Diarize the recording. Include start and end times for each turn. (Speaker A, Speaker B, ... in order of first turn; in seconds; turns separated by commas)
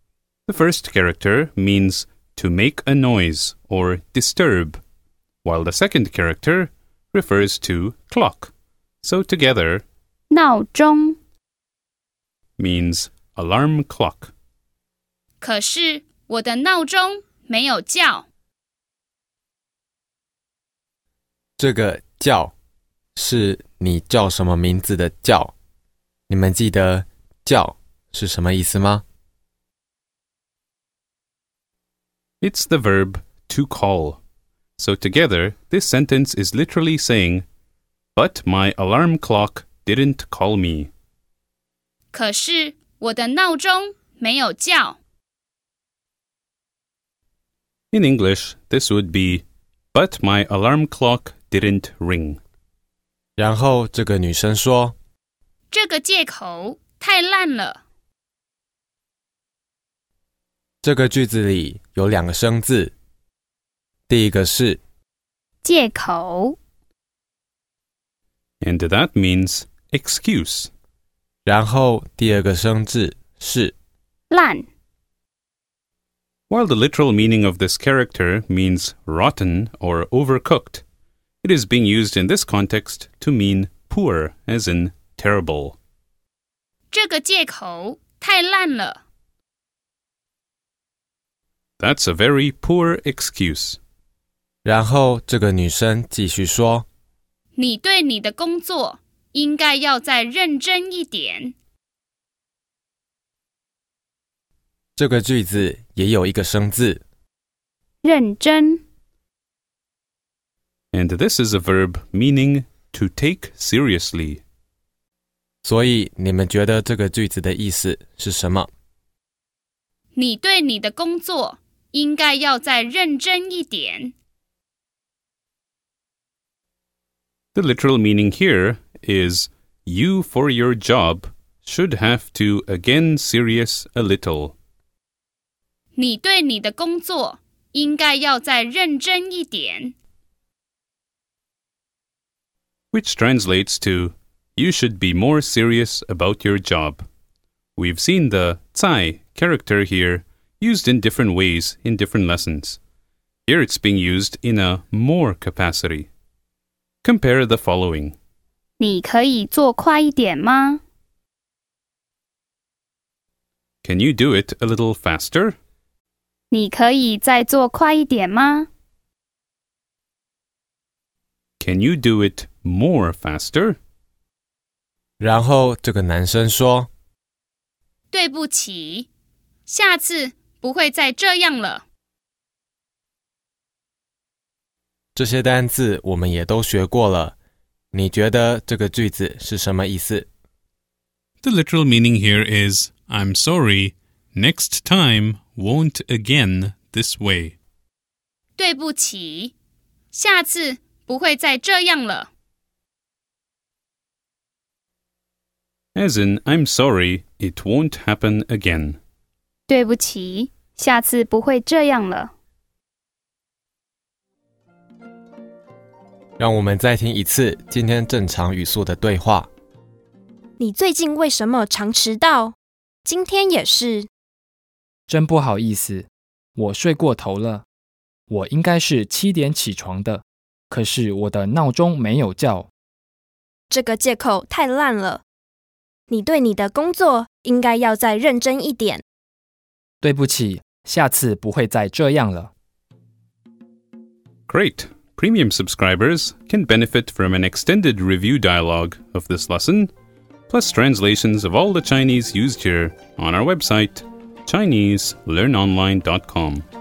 Speaker A: 0.5-4.8, Speaker A: 5.4-8.5, Speaker A: 9.0-9.8, Speaker B: 10.3-11.2, Speaker A: 12.6-14.3, Speaker B: 15.4-18.3, Speaker C: 21.6-22.5, Speaker C: 23.1-25.5, Speaker C: 26.3-29.0, Speaker A: 32.4-34.2, Speaker A: 34.8-37.5, Speaker A: 38.1-40.9, Speaker B: 42.1-45.0, Speaker A: 47.9-52.4, Speaker C: 53.4-55.0, Speaker B: 55.7-57.8, Speaker C: 60.8-62.9, Speaker C: 64.1-64.8, Speaker B: 65.6-66.5, Speaker A: 68.6-70.7, Speaker C: 71.5-73.7, Speaker B: 74.3-74.7, Speaker A: 76.5-80.8, Speaker A: 81.4-85.8, Speaker B: 86.9-89.0, Speaker A: 91.8-93.8, Speaker C: 94.6-96.8, Speaker B: 97.5-101.5, Speaker C: 105.0-107.0, Speaker B: 108.0-108.8, Speaker A: 110.9-114.4, Speaker C: 115.6-118.7, Speaker B: 120.1-124.1, Speaker A: 127.5-134.5, Speaker B: 135.9-139.9, Speaker A: 142.9-147.1, Speaker A: 147.8-152.8, Speaker A: 153.4-156.1, Speaker A: 157.0-158.2, Speaker B: 158.8-160.8, Speaker A: 163.8-165.6, Speaker B: 166.5-168.7, Speaker A: 171.6-173.8, Speaker C: 175.2-176.9, Speaker B: 178.1-179.1, Speaker B: 179.7-181.8, Speaker C: 185.1-187.3, Speaker C: 187.9-190.3, Speaker A: 191.4-197.6, Speaker B: 198.6-199.5, Speaker B: 200.1-202.3, Speaker A: 205.9-209.0, Speaker B: 209.7-212.3, Speaker C: 216.4-219.5, Speaker D: 220.6-224.1, Speaker E: 225.1-227.6, Speaker E: 228.3-232.7, Speaker D: 233.7-235.2, Speaker D: 236.1-239.0, Speaker E: 240.0-242.5, Speaker A: 244.5-249.9, Speaker A: 250.5-256.6